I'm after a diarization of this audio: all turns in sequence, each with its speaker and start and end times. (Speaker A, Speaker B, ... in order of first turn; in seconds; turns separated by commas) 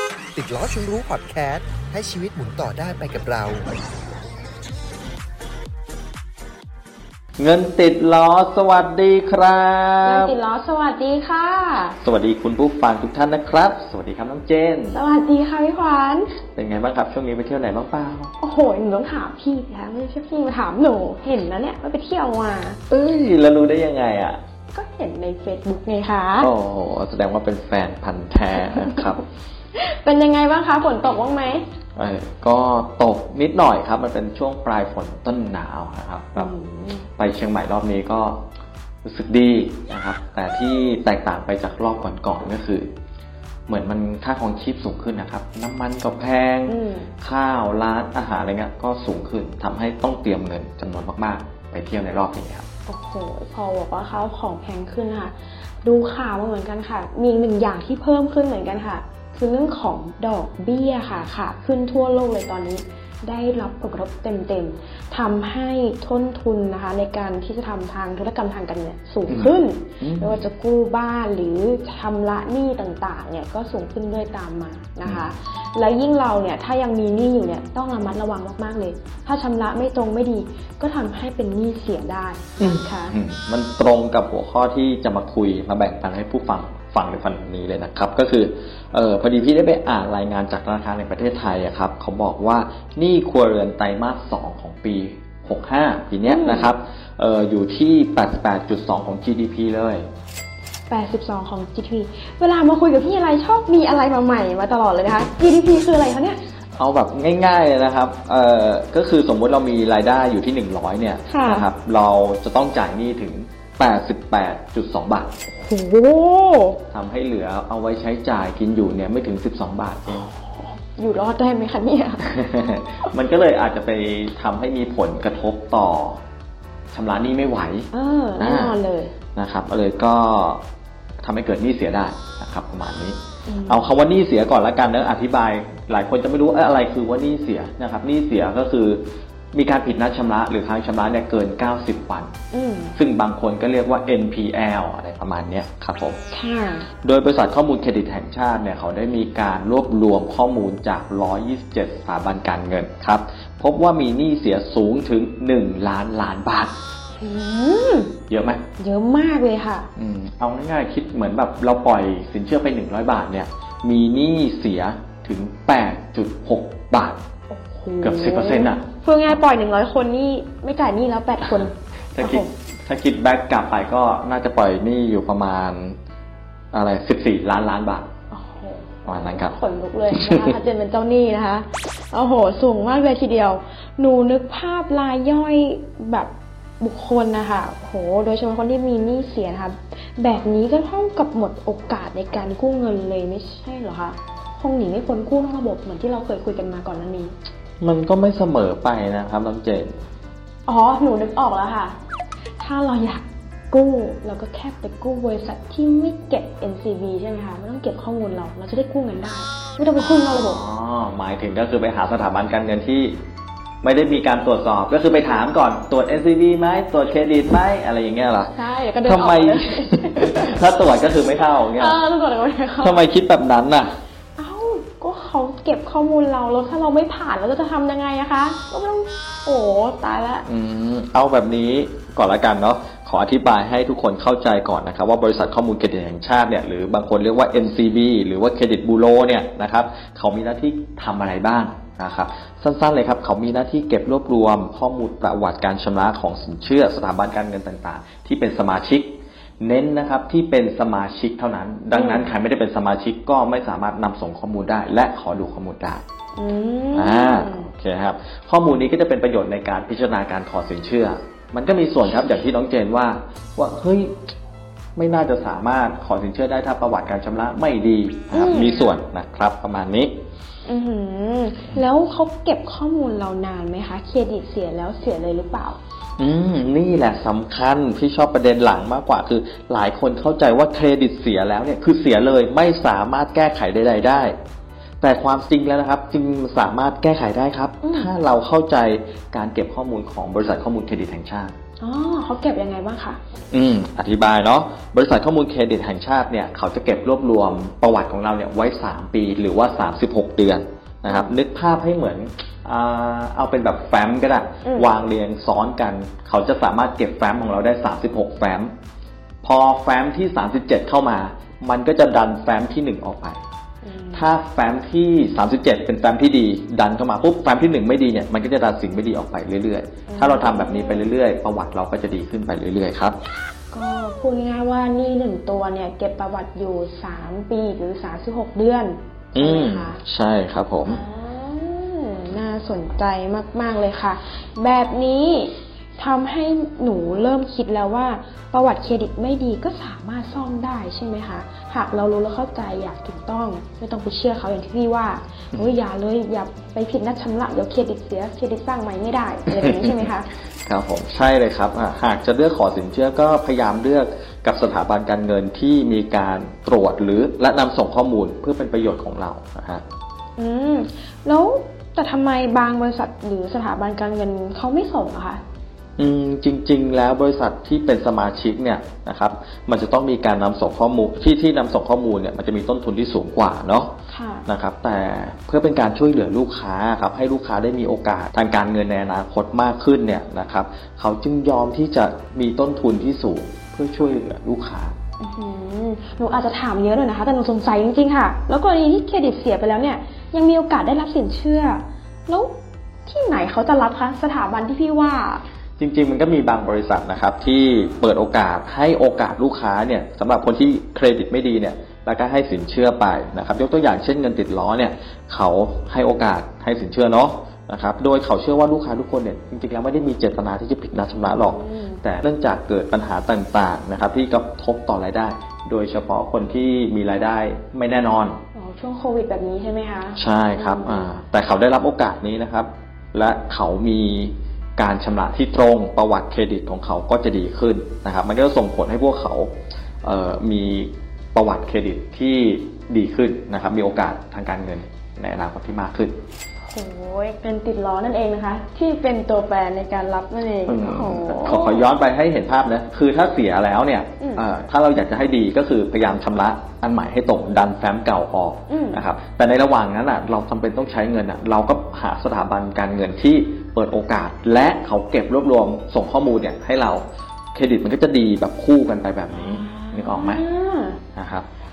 Speaker A: 0.3-3.7, Speaker B: 7.4-10.3, Speaker C: 10.0-12.0, Speaker B: 12.0-14.9, Speaker C: 14.9-16.3, Speaker B: 16.6-18.3, Speaker C: 18.4-22.8, Speaker B: 22.9-24.4, Speaker C: 24.7-26.5, Speaker B: 26.4-29.2, Speaker C: 29.7-31.6, Speaker B: 31.9-36.5, Speaker C: 36.4-37.0, Speaker B: 37.2-38.4, Speaker B: 39.0-42.9, Speaker B: 43.7-52.7, Speaker C: 46.7-47.1, Speaker C: 52.9-83.1, Speaker B: 69.3-70.4, Speaker B: 75.0-75.3, Speaker B: 82.6-100.0, Speaker C: 96.2-96.7, Speaker C: 100.9-106.4, Speaker B: 106.8-115.3, Speaker C: 111.3-111.7, Speaker C: 115.5-116.8, Speaker B: 116.9-120.3, Speaker C: 120.2-122.3, Speaker B: 122.3-126.2, Speaker B: 126.9-127.9, Speaker C: 127.9-129.1, Speaker B: 128.4-128.8, Speaker B: 129.3-130.6, Speaker B: 131.2-142.3, Speaker C: 133.4-133.9, Speaker C: 142.5-142.9, Speaker B: 142.9-146.2, Speaker C: 146.3-146.9, Speaker B: 147.0-156.7, Speaker C: 157.2-158.1, Speaker B: 158.3-158.6, Speaker C: 158.8-159.9, Speaker B: 159.9-167.2, Speaker C: 167.5-172.5, Speaker B: 168.0-169.4, Speaker B: 171.5-175.9, Speaker B: 176.7-178.1, Speaker C: 178.3-197.3, Speaker B: 179.1-179.5, Speaker B: 180.1-180.6, Speaker B: 197.8-199.9, Speaker C: 200.7-201.9, Speaker C: 202.6-210.6, Speaker B: 210.0-213.2, Speaker B: 213.8-218.5, Speaker C: 218.5-223.0, Speaker B: 219.0-222.0, Speaker B: 222.8-223.9, Speaker C: 224.3-230.4, Speaker B: 230.5-256.0, Speaker C: 251.9-252.3, Speaker C: 256.4-257.7, Speaker B: 256.9-264.1, Speaker B: 264.9-270.1, Speaker C: 268.3-268.9, Speaker C: 270.6-275.8, Speaker B: 276.2-284.3, Speaker B: 285.0-291.5, Speaker C: 287.8-288.1, Speaker C: 291.8-293.2, Speaker B: 293.5-308.7, Speaker C: 301.1-301.3, Speaker C: 304.6-304.9, Speaker B: 309.4-313.4, Speaker C: 313.8-314.3, Speaker B: 314.1-323.1, Speaker C: 320.1-321.1, Speaker C: 323.7-330.0, Speaker B: 329.3-331.0, Speaker C: 330.9-350.3, Speaker B: 349.5-350.1, Speaker B: 350.6-359.8, Speaker C: 360.4-365.4, Speaker B: 366.0-373.9, Speaker C: 374.1-374.5, Speaker B: 374.5-384.9, Speaker C: 385.2-392.5, Speaker C: 393.1-395.4, Speaker B: 395.8-418.4, Speaker C: 411.4-412.0, Speaker C: 418.5-421.1, Speaker B: 420.1-429.5, Speaker B: 430.0-436.1, Speaker C: 436.6-441.9, Speaker B: 440.7-460.4, Speaker C: 444.2-444.4, Speaker C: 448.7-449.0, Speaker C: 459.3-461.0, Speaker B: 461.1-461.5